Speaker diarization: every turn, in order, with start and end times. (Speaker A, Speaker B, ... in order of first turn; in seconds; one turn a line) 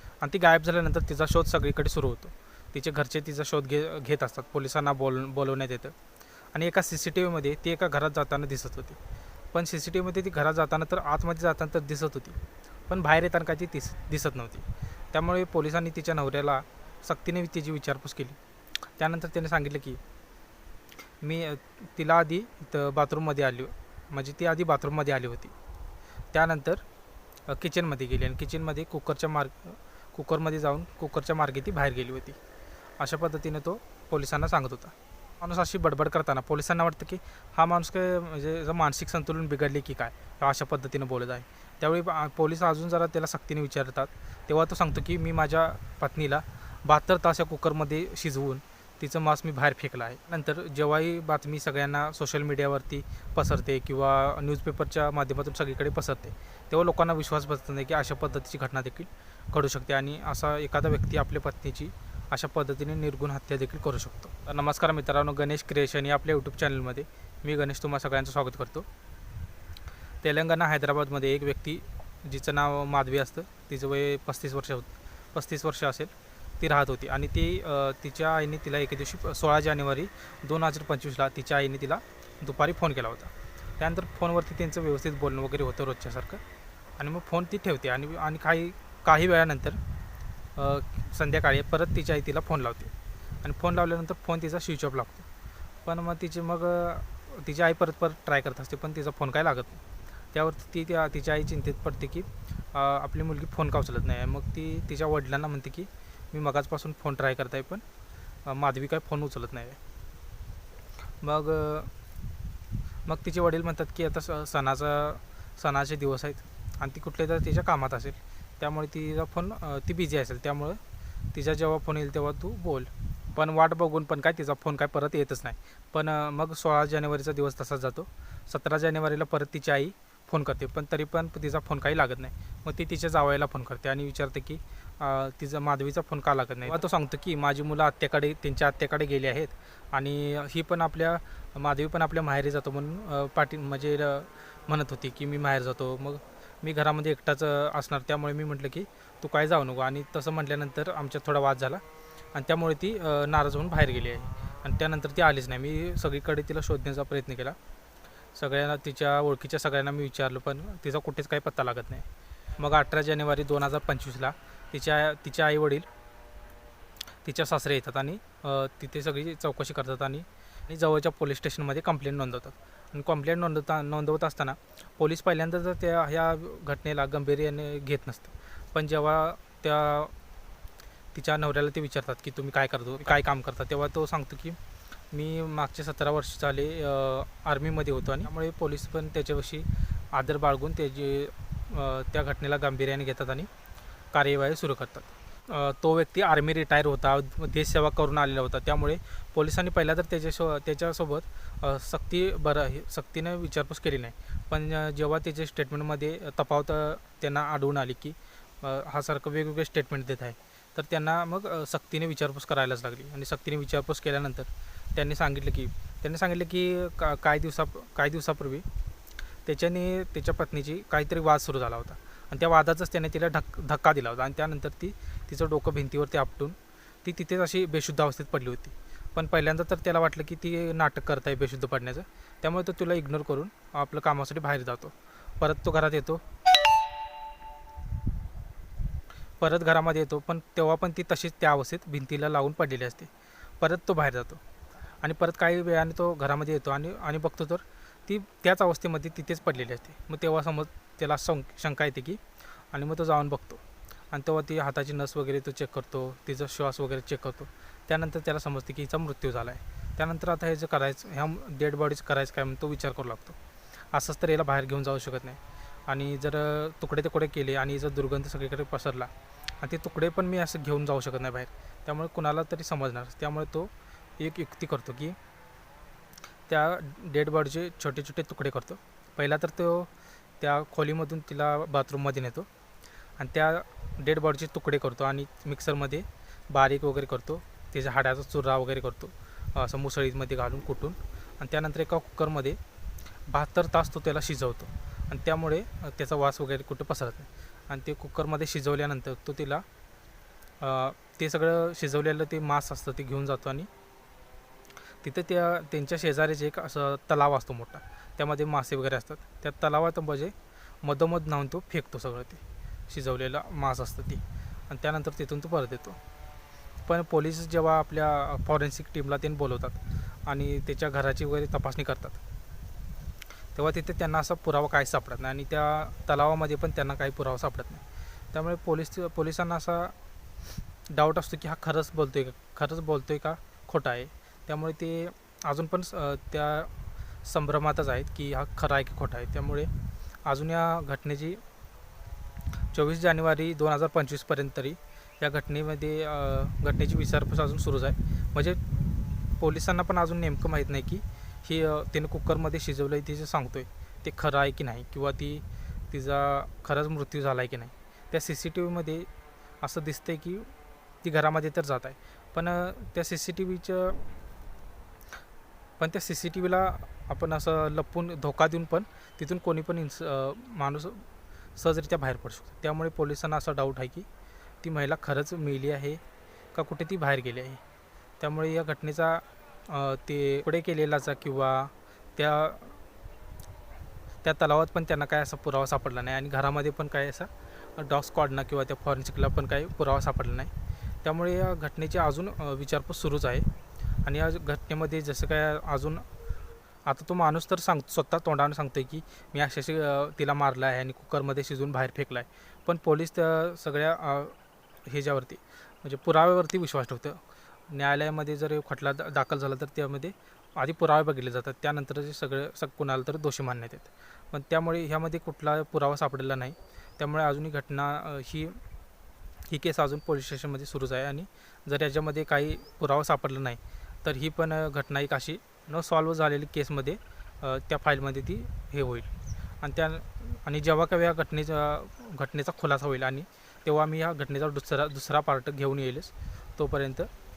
Speaker A: 0.2-5.9
Speaker A: 6.5-9.0
Speaker A: 9.5-12.4
Speaker A: 12.9-18.4
Speaker A: 19.0-20.0
Speaker A: 21.2-25.5
Speaker A: 26.3-26.8
Speaker A: 27.5-32.4
Speaker A: 33.0-68.9
Speaker A: 70.2-86.4
Speaker A: 87.0-89.8
Speaker A: 90.5-95.2
Speaker A: 95.8-99.8
Speaker A: 100.3-107.8
Speaker A: 108.4-109.8
Speaker A: 111.2-111.9
Speaker A: 113.0-120.8
Speaker A: 121.3-151.8
Speaker A: 152.3-157.6
Speaker A: 158.3-165.9
Speaker A: 167.2-180.1
Speaker A: 181.1-184.6
Speaker A: 185.1-193.5
Speaker A: 194.1-218.7
Speaker A: 219.4-236.2
Speaker A: 239.4-244.4
Speaker A: 245.0-263.4
Speaker A: 263.9-275.2
Speaker A: 276.5-279.9
Speaker A: 280.4-282.5
Speaker A: 283.2-292.6
Speaker A: 293.3-299.6
Speaker A: 300.6-303.7
Speaker A: 305.0-316.0
Speaker A: 316.9-322.2
Speaker A: 323.5-329.9
Speaker A: 330.9-336.7
Speaker A: 337.2-339.7
Speaker A: 340.2-341.4
Speaker A: 342.7-348.6
Speaker A: 349.4-359.1
Speaker A: 359.6-360.5
Speaker A: 361.0-364.0
Speaker A: 365.8-371.0
Speaker A: 371.6-374.1
Speaker A: 374.6-376.0
Speaker A: 376.5-377.6
Speaker A: 378.2-382.8
Speaker A: 384.2-390.5
Speaker A: 391.0-393.5
Speaker A: 394.0-396.0
Speaker A: 396.8-418.6
Speaker A: 419.5-429.1
Speaker A: 429.6-437.1